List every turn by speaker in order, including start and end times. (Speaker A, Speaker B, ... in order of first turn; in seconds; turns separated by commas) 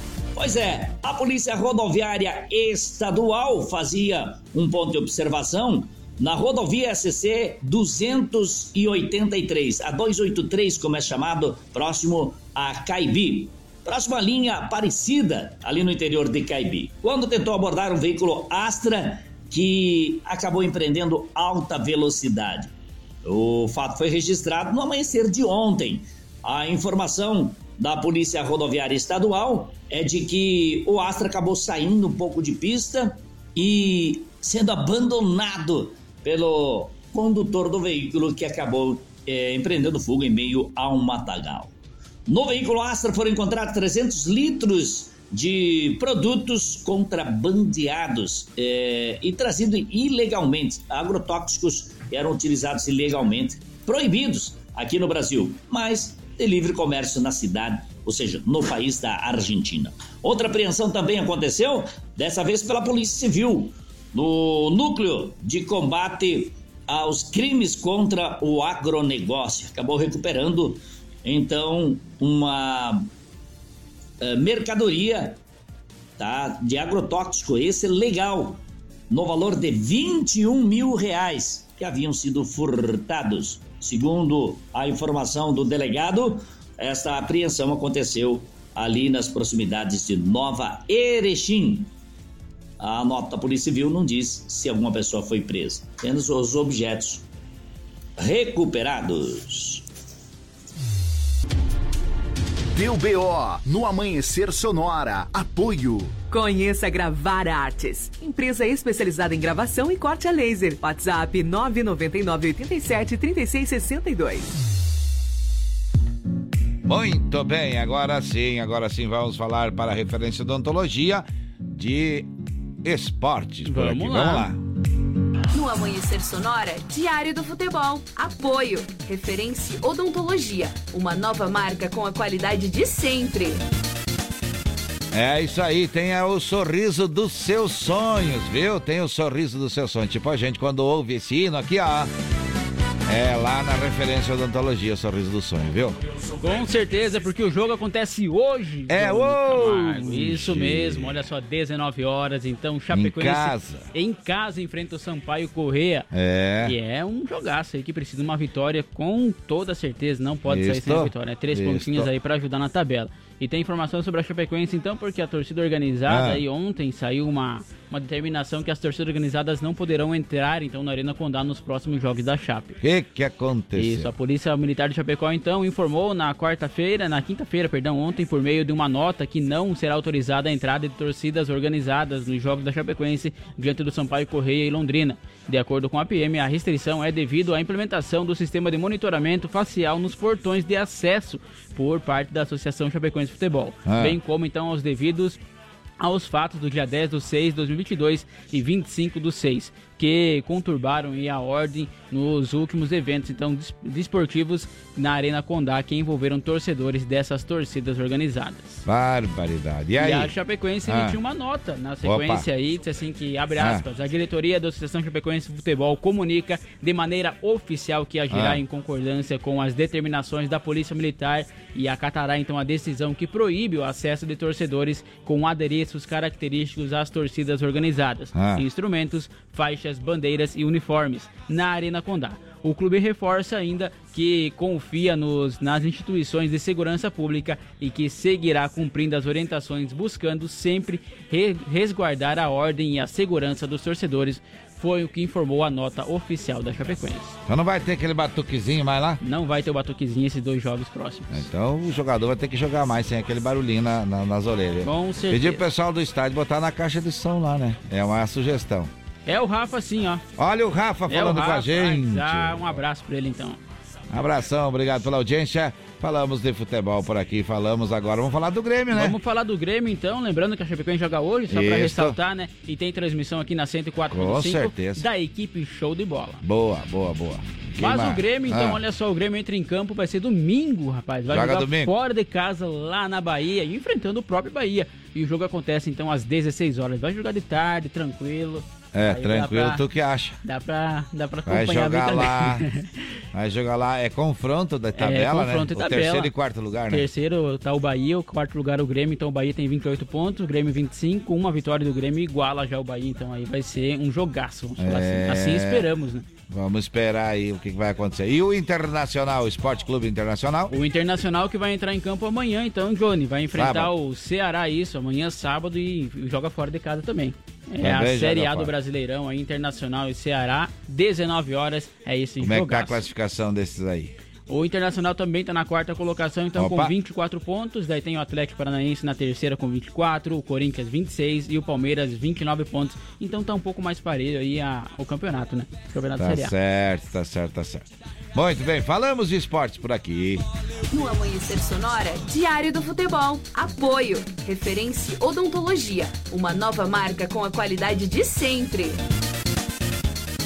Speaker A: 0.3-22.7, Speaker A: 23.2-41.7, Speaker A: 42.3-73.1, Speaker A: 74.2-75.4, Speaker A: 76.2-91.9, Speaker A: 92.8-97.2, Speaker A: 98.2-99.8, Speaker B: 102.7-106.1, Speaker C: 106.3-114.5, Speaker D: 116.8-122.3, Speaker D: 122.8-124.6, Speaker E: 123.6-124.5, Speaker F: 125.5-133.5, Speaker D: 135.1-142.1, Speaker D: 143.1-146.0, Speaker E: 146.4-156.1, Speaker D: 148.9-151.2, Speaker D: 152.9-153.8, Speaker D: 156.1-156.7, Speaker E: 156.6-172.8, Speaker D: 160.5-162.1, Speaker D: 166.1-166.4, Speaker D: 172.8-174.1, Speaker E: 173.8-195.4, Speaker D: 193.8-194.2, Speaker E: 196.0-208.8, Speaker D: 208.8-210.3, Speaker E: 210.0-247.3, Speaker D: 210.8-211.2, Speaker D: 212.0-212.4, Speaker D: 213.6-213.8, Speaker D: 218.3-218.6, Speaker D: 228.3-228.6, Speaker D: 247.4-249.2, Speaker E: 249.2-251.4, Speaker D: 251.3-258.9, Speaker E: 254.8-255.6, Speaker E: 259.2-260.2, Speaker D: 260.4-262.8, Speaker E: 261.1-263.6, Speaker D: 264.1-269.1, Speaker E: 268.9-276.4, Speaker D: 271.5-272.1, Speaker D: 274.1-275.0, Speaker D: 276.4-278.8, Speaker E: 277.8-289.8, Speaker D: 281.3-281.9, Speaker D: 288.9-290.4, Speaker E: 290.4-292.9, Speaker D: 291.4-292.6, Speaker D: 293.3-297.1, Speaker E: 295.0-296.3, Speaker E: 296.9-306.2, Speaker D: 304.8-305.9, Speaker D: 306.5-310.7, Speaker E: 310.7-323.0, Speaker D: 313.5-313.9, Speaker D: 317.8-318.7, Speaker D: 322.4-324.1, Speaker E: 324.5-336.5, Speaker D: 326.6-326.9, Speaker D: 336.2-340.4, Speaker F: 340.9-348.9